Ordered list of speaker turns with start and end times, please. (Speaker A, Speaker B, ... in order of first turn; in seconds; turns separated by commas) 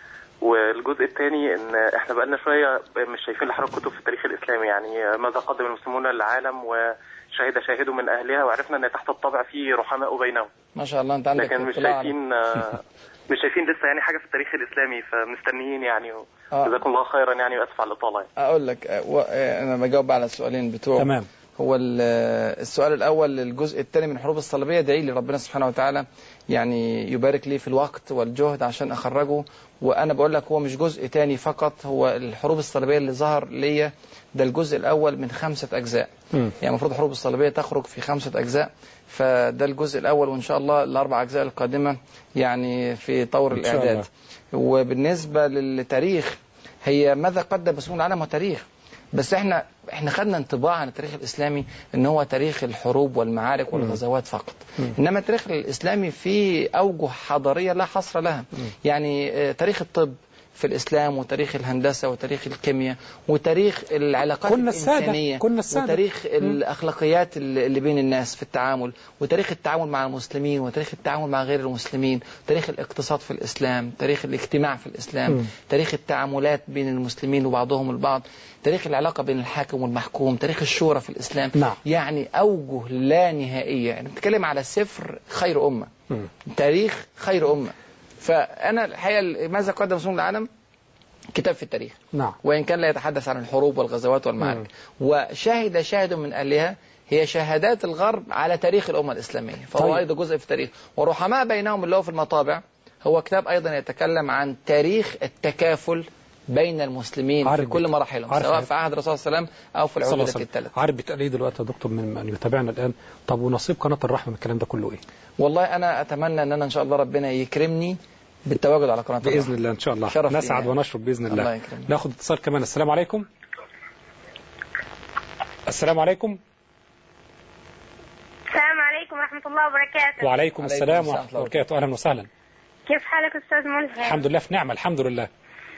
Speaker A: 0.4-10.5, Speaker B: 10.7-12.2, Speaker A: 11.4-18.3, Speaker B: 16.5-16.8, Speaker B: 18.4-85.9, Speaker C: 21.0-21.3, Speaker C: 43.5-44.0, Speaker C: 64.5-66.6, Speaker B: 86.5-90.5, Speaker B: 91.3-110.7, Speaker C: 107.4-108.7, Speaker C: 110.0-115.0, Speaker B: 115.4-119.5, Speaker C: 119.2-123.3, Speaker B: 120.0-120.7, Speaker B: 121.3-121.9, Speaker C: 125.7-126.4, Speaker D: 128.5-130.2, Speaker C: 130.2-132.3, Speaker B: 130.6-131.6, Speaker D: 132.9-134.2, Speaker C: 134.0-135.3